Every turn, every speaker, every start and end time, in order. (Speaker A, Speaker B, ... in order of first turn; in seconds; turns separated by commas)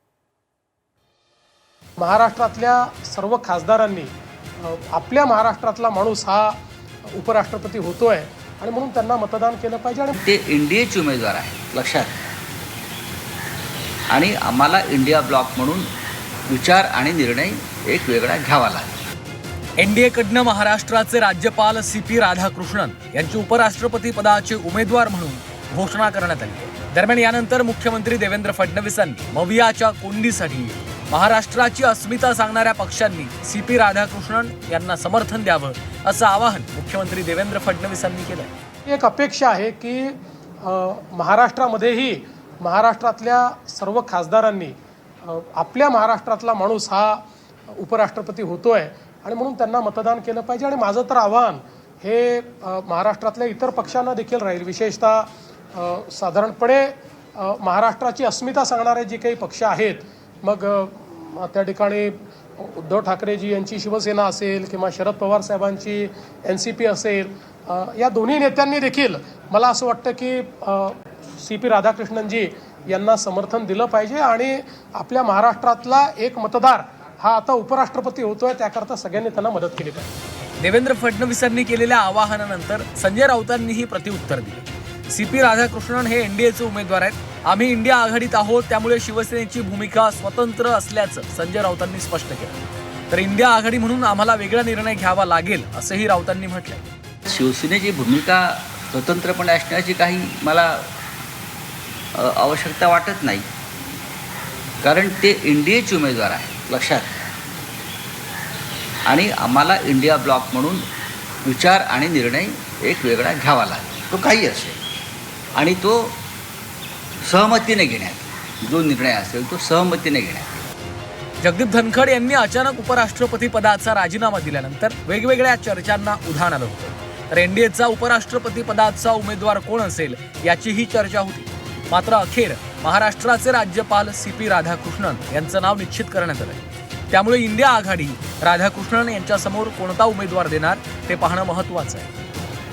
Speaker A: 2.0-6.6, Speaker A: 7.2-10.2, Speaker B: 10.2-12.2, Speaker B: 14.1-15.9, Speaker B: 16.5-19.0, Speaker C: 19.8-38.5, Speaker A: 38.9-47.2, Speaker A: 47.7-80.1, Speaker C: 80.6-96.9, Speaker B: 97.3-100.9, Speaker B: 102.2-103.5, Speaker B: 104.8-107.3, Speaker B: 109.1-110.8, Speaker B: 111.5-114.8, Speaker B: 115.6-116.2, Speaker B: 117.2-120.6, Speaker C: 121.4-142.1